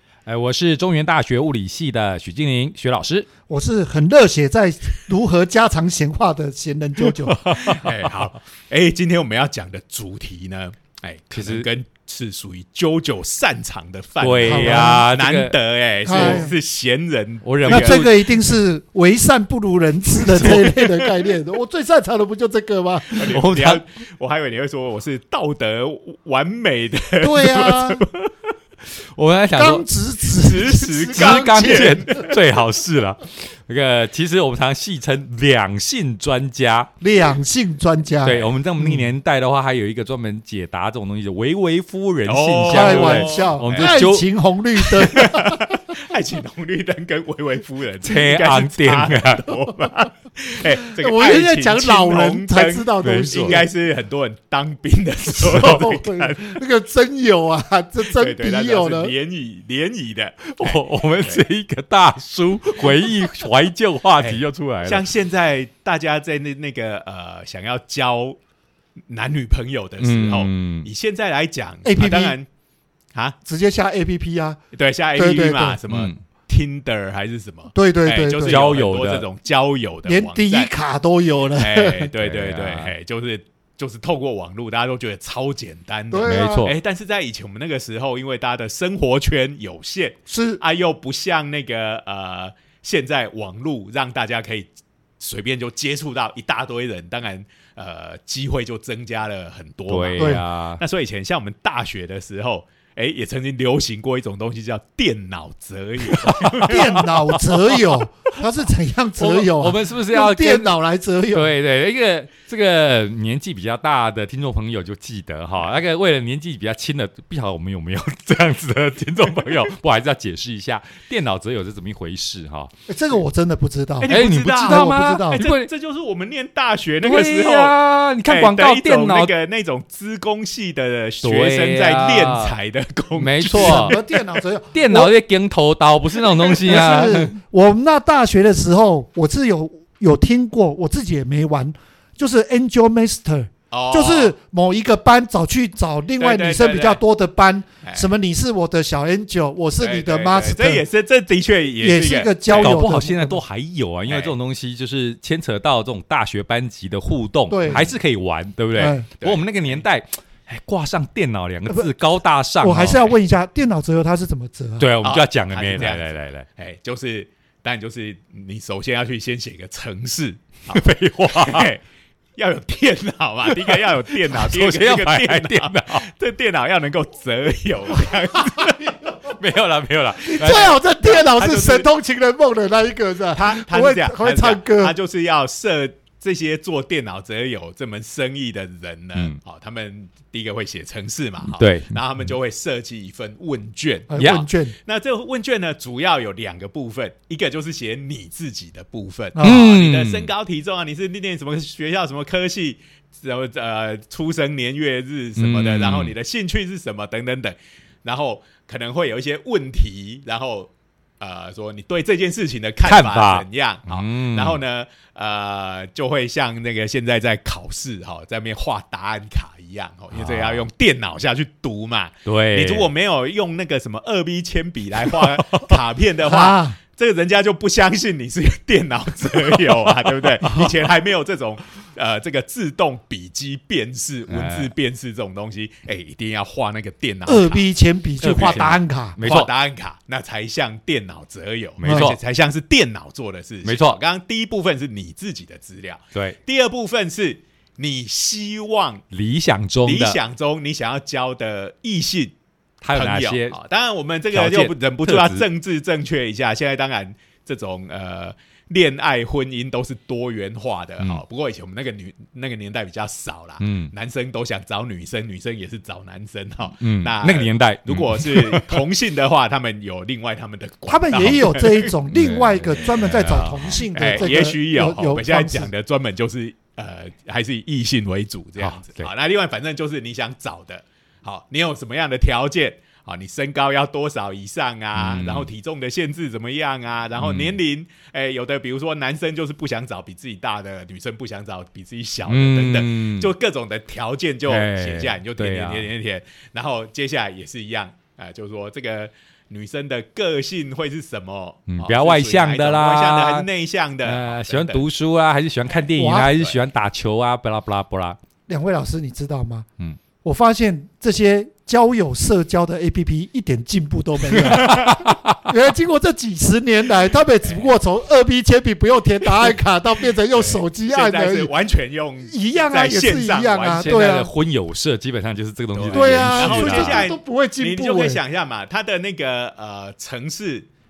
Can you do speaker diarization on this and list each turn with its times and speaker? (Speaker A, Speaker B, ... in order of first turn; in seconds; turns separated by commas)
Speaker A: 0.2-3.3, Speaker B: 3.5-7.8, Speaker A: 7.3-8.3, Speaker C: 7.6-18.1, Speaker A: 11.3-11.7, Speaker A: 14.2-16.4, Speaker B: 14.4-15.1, Speaker B: 16.1-16.5, Speaker A: 17.4-18.2, Speaker B: 17.6-23.2, Speaker A: 20.3-20.8, Speaker C: 20.4-20.8, Speaker C: 23.1-28.3, Speaker A: 23.1-23.8, Speaker B: 27.2-28.0, Speaker A: 29.1-29.9, Speaker B: 29.6-32.2, Speaker C: 30.3-32.4, Speaker A: 31.1-36.9, Speaker B: 37.0-39.0, Speaker A: 38.2-44.2, Speaker C: 42.2-44.0, Speaker B: 42.7-45.8, Speaker C: 44.9-56.6, Speaker A: 48.0-49.5, Speaker B: 50.8-53.6, Speaker A: 53.0-53.6, Speaker B: 55.3-59.1, Speaker C: 58.1-61.4, Speaker A: 60.5-65.0, Speaker C: 64.2-68.4, Speaker C: 69.1-72.5, Speaker A: 70.0-70.9, Speaker B: 71.8-72.3, Speaker B: 73.4-74.6, Speaker C: 74.7-80.7, Speaker B: 75.2-75.8, Speaker A: 75.9-76.2, Speaker B: 77.7-78.6, Speaker A: 78.4-79.2, Speaker B: 80.0-82.1, Speaker C: 81.6-94.7, Speaker A: 82.2-82.9, Speaker B: 86.1-86.7, Speaker A: 86.2-86.7, Speaker B: 90.3-90.6, Speaker C: 95.2-107.0, Speaker A: 99.9-100.8, Speaker B: 100.2-100.4, Speaker A: 106.0-108.0, Speaker B: 106.6-111.5, Speaker A: 109.2-110.8, Speaker A: 111.3-122.7, Speaker B: 122.9-125.4, Speaker C: 124.0-134.2, Speaker A: 124.0-125.7, Speaker A: 127.0-129.3, Speaker A: 131.2-132.6, Speaker A: 133.2-134.0, Speaker B: 133.5-135.1, Speaker A: 134.7-137.3, Speaker C: 136.2-136.7, Speaker B: 136.7-150.8, Speaker C: 143.7-144.3, Speaker C: 146.2-147.0, Speaker C: 147.8-148.1, Speaker C: 149.8-152.8, Speaker B: 151.8-153.4, Speaker A: 152.5-163.1, Speaker C: 154.1-154.3, Speaker B: 157.5-157.8, Speaker C: 157.7-157.9, Speaker B: 158.8-159.1, Speaker C: 159.2-159.8, Speaker B: 162.6-164.9, Speaker A: 164.8-166.5, Speaker C: 165.0-166.0, Speaker C: 166.6-171.8, Speaker A: 170.7-171.7, Speaker C: 172.4-179.3, Speaker A: 173.4-176.1, Speaker A: 179.2-180.8, Speaker B: 180.2-184.9, Speaker C: 181.0-181.9, Speaker C: 183.3-237.6, Speaker A: 191.4-191.9, Speaker B: 194.1-194.7, Speaker B: 199.3-199.7, Speaker A: 199.4-200.3, Speaker A: 205.4-206.1, Speaker A: 212.8-214.6, Speaker A: 220.1-220.7, Speaker A: 222.2-222.9, Speaker A: 225.1-225.7, Speaker B: 226.2-226.8, Speaker A: 229.8-230.7, Speaker A: 234.3-234.7, Speaker B: 237.2-239.2, Speaker A: 238.2-239.5, Speaker C: 238.4-238.7, Speaker C: 239.2-249.0, Speaker A: 241.8-242.2, Speaker A: 243.6-244.0, Speaker A: 249.1-250.2, Speaker C: 249.8-252.3, Speaker A: 252.8-253.6, Speaker C: 252.9-271.9, Speaker A: 254.3-255.4, Speaker A: 263.6-263.9, Speaker A: 266.8-268.8, Speaker B: 270.9-275.7, Speaker A: 272.1-273.8, Speaker C: 272.8-304.8, Speaker A: 278.6-279.1, Speaker A: 284.9-285.5, Speaker A: 287.2-287.6, Speaker A: 292.3-293.3, Speaker A: 294.4-295.9, Speaker A: 301.7-303.5, Speaker A: 304.0-308.2, Speaker B: 306.0-306.3, Speaker B: 308.5-309.7, Speaker B: 310.2-321.5, Speaker A: 314.3-315.5, Speaker C: 320.2-324.1, Speaker B: 322.2-324.3, Speaker A: 323.8-327.0, Speaker C: 325.7-330.7, Speaker B: 325.9-328.2